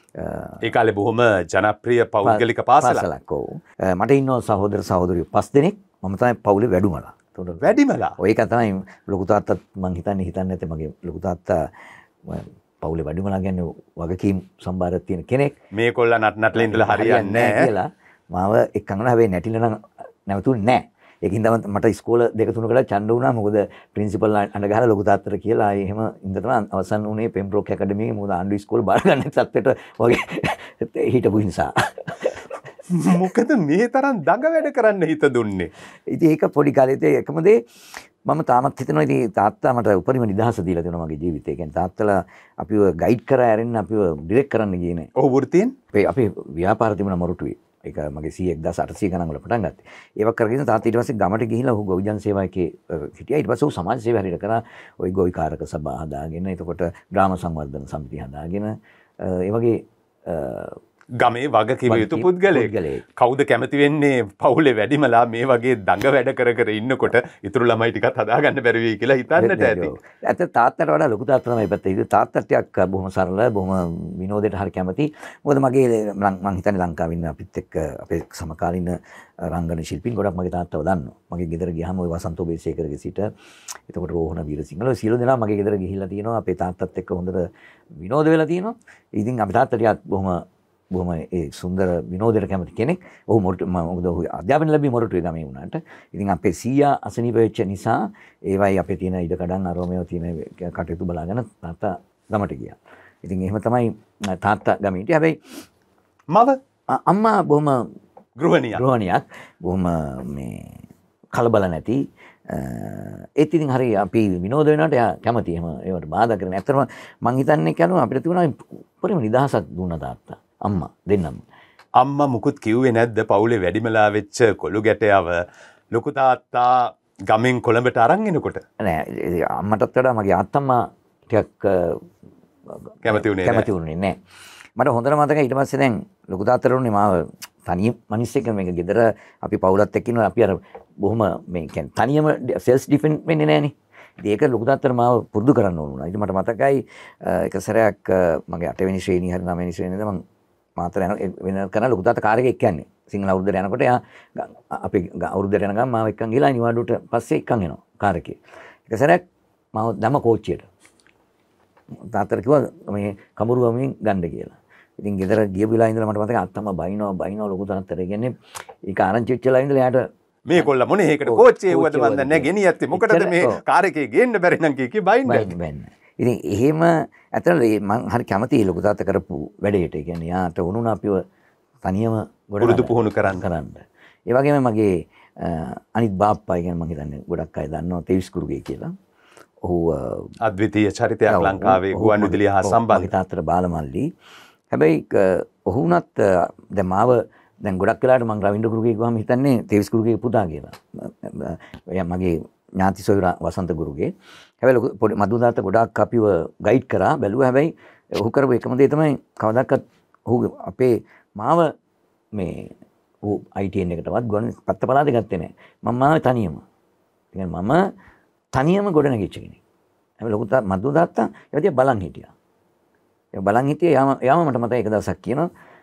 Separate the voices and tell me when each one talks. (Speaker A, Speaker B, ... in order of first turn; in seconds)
Speaker A: 0.2-0.7, 2.2-11.7, 12.3-15.5, 16.6-32.4, 36.1-37.6, 38.3-45.1, 45.9-60.8, 61.9-63.0, 69.4-83.3, 83.9-105.4, 106.9-107.9, 108.7-110.8, 111.3-121.4, 128.8-132.0, 132.9-134.2, 134.8-150.2, 150.8-158.4, 158.9-160.7, 162.1-168.3, 168.9-170.7, 171.3-173.6, 175.3-181.2, 181.8-188.9, 189.6-190.3, 191.3-194.1, 194.7-211.7, 212.4-212.7, 213.2-216.6, 217.3-217.8, 218.5-219.6, 220.2-222.3, 223.3-225.5
Speaker B: 0.6-3.1, 7.6-8.2, 15.7-17.7, 32.9-35.7, 45.2-45.7, 61.2-69.9, 106.3-106.6, 108.4-108.8, 122.0-125.4, 125.9-128.6, 133.0-133.7, 170.5-175.5, 182.6-183.5, 190.4-193.1